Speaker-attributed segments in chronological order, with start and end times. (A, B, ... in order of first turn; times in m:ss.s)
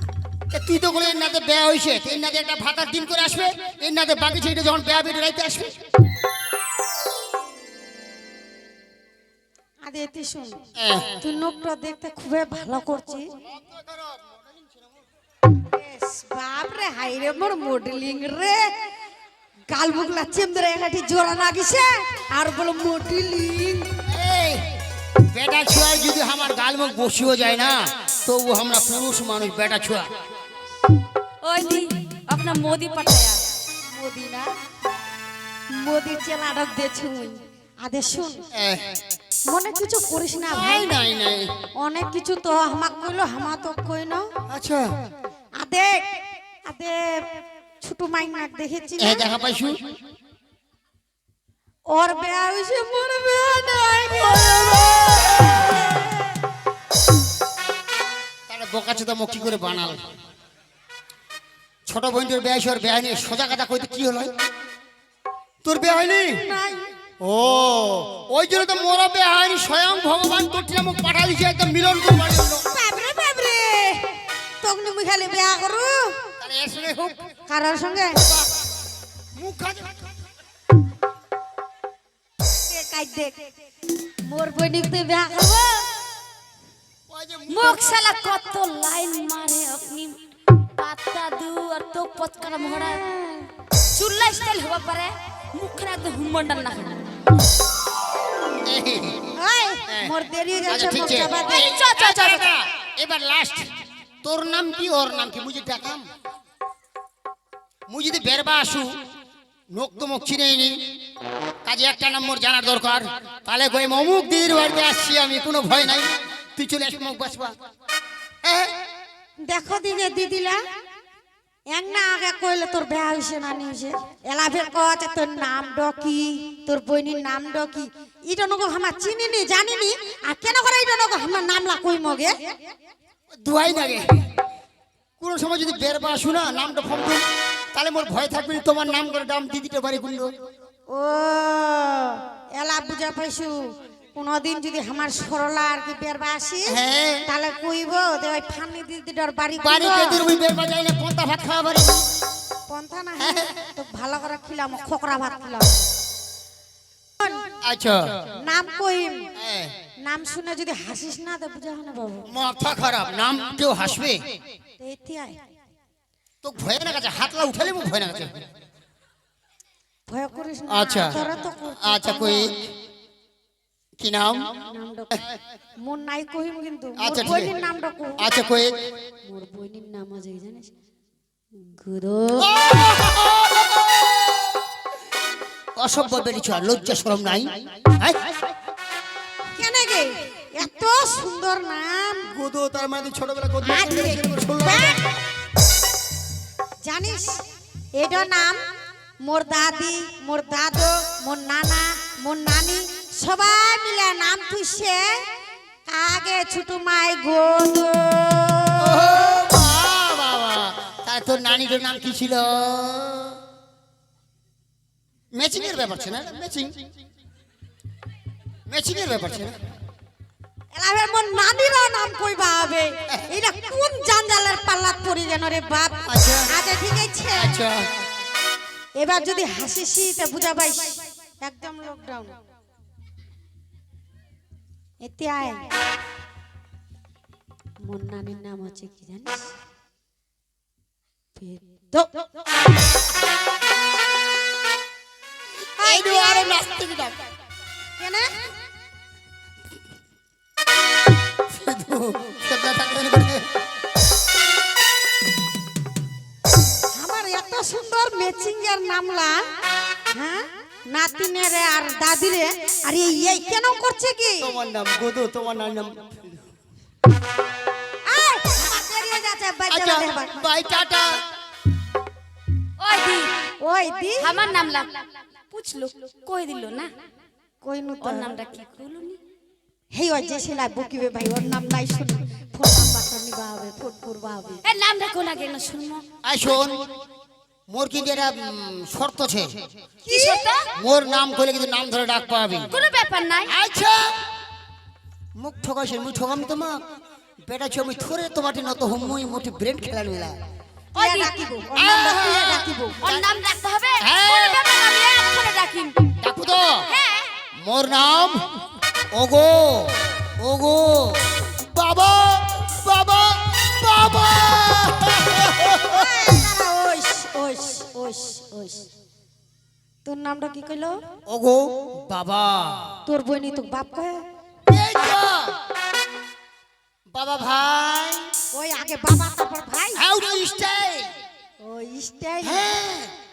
0:00.5-0:05.8 A
0:09.8-0:10.6 B
0:10.8-0:11.1 A
0:11.2-0:13.2 B
0:15.7-0:18.6 B
0:19.7-0:23.9 B
0:24.1-0:24.6 A
0:25.3-0:30.1 A
0:31.4-0:33.4 C
0:33.9-0:34.5 B
0:35.8-0:38.4 B
0:38.5-0:38.9 A
0:39.5-0:41.0 B
0:40.5-0:41.5 A
0:41.8-0:44.3 B
0:44.5-0:44.9 A
0:45.6-0:46.0 B
0:46.7-0:47.2 B
0:47.8-0:49.2 B
0:49.0-0:49.8 A
0:51.9-0:55.7 B
0:54.2-0:55.2 A
0:58.5-1:00.0 A
1:01.9-1:04.3 A
1:05.6-1:06.4 A
1:06.4-1:06.8 B
1:07.2-1:12.6 A
1:12.7-1:14.1 B
1:14.6-1:16.2 B
1:16.4-1:17.2 A
1:17.5-1:18.2 B
1:18.2-1:18.5 A
1:19.4-1:20.0 A
1:22.7-1:23.4 B
1:24.2-1:25.8 B
1:27.1-1:27.8 A
1:27.5-1:30.1 C
1:30.8-1:33.0 C
1:32.8-1:33.5 B
1:33.9-1:37.0 C
1:38.6-1:39.3 A
1:39.4-1:41.6 B
1:40.7-1:43.6 A
1:41.4-1:42.5 C
1:44.2-1:46.1 A
1:47.9-1:49.0 A
1:49.7-1:50.8 A
1:51.6-1:57.5 A
1:58.4-1:58.7 A
1:59.5-2:00.6 B
2:01.7-2:12.3 B
2:13.4-2:14.2 A
2:15.2-2:20.3 A
2:20.9-2:23.6 B
2:24.1-2:26.8 B
2:26.7-2:27.2 A
2:27.3-2:30.2 B
2:29.6-2:32.0 A
2:32.7-2:35.8 B
2:33.2-2:33.6 A
2:37.2-2:37.4 B
2:37.6-2:38.1 A
2:38.4-2:39.3 B
2:39.4-2:39.7 A
2:40.0-2:42.2 B
2:42.3-2:44.2 A
2:44.8-2:45.4 B
2:46.4-2:48.4 A
2:50.1-2:52.5 B
2:50.7-2:51.3 A
2:51.8-2:52.6 A
2:54.0-2:54.4 A
2:54.7-2:55.1 B
2:55.8-2:58.2 B
2:57.0-2:57.5 A
2:58.2-2:58.7 A
2:59.3-3:00.7 B
3:01.6-3:02.5 B
3:02.4-3:04.4 A
3:05.8-3:08.4 A
3:09.6-3:12.2 B
3:12.3-3:15.0 A
3:13.6-3:14.9 B
3:16.8-3:17.4 B
3:18.0-3:18.6 B
3:19.2-3:25.2 B
3:25.9-3:29.0 B
3:28.8-3:33.4 A
3:35.3-3:36.8 A
3:38.7-3:39.5 A
3:40.7-3:47.6 B
3:46.1-3:46.5 A
3:47.4-3:47.9 A
3:49.0-3:52.3 B
3:55.0-3:55.6 B
3:57.8-3:59.5 B
4:01.4-4:02.1 B
4:05.8-4:07.2 A
4:05.8-4:06.6 B
4:08.0-4:08.3 B
4:11.5-4:13.4 A
4:16.9-4:19.4 B
4:20.1-4:24.5 B
4:24.4-4:26.4 A
4:28.1-4:30.3 B
4:29.7-4:31.2 A
4:32.8-4:33.3 C
4:33.6-4:34.3 B
4:34.2-4:35.0 C
4:35.5-4:36.9 C
4:37.6-4:38.3 B
4:38.0-4:39.2 C
4:39.9-4:44.6 B
4:44.6-4:46.0 C
4:46.2-4:46.8 A
4:47.7-4:49.5 A
4:50.0-4:50.5 B
4:50.1-4:50.7 C
4:50.8-4:52.7 A
4:52.7-4:53.5 C
4:53.5-4:54.2 A
4:55.4-4:56.8 A
4:57.5-5:00.4 A
5:00.9-5:01.3 C
5:01.0-5:03.0 B
5:01.7-5:03.2 A
5:03.0-5:06.1 C
5:04.0-5:04.6 A
5:06.2-5:06.9 A
5:06.9-5:07.3 C
5:07.6-5:08.4 A
5:09.1-5:16.3 A
5:15.8-5:18.9 B
5:20.0-5:21.0 B
5:21.3-5:23.0 A
5:23.1-5:24.2 B
5:24.7-5:25.5 A
5:27.1-5:28.3 A
5:28.5-5:30.0 B
5:30.0-5:31.1 A
5:31.6-5:32.6 B
5:32.4-5:33.1 A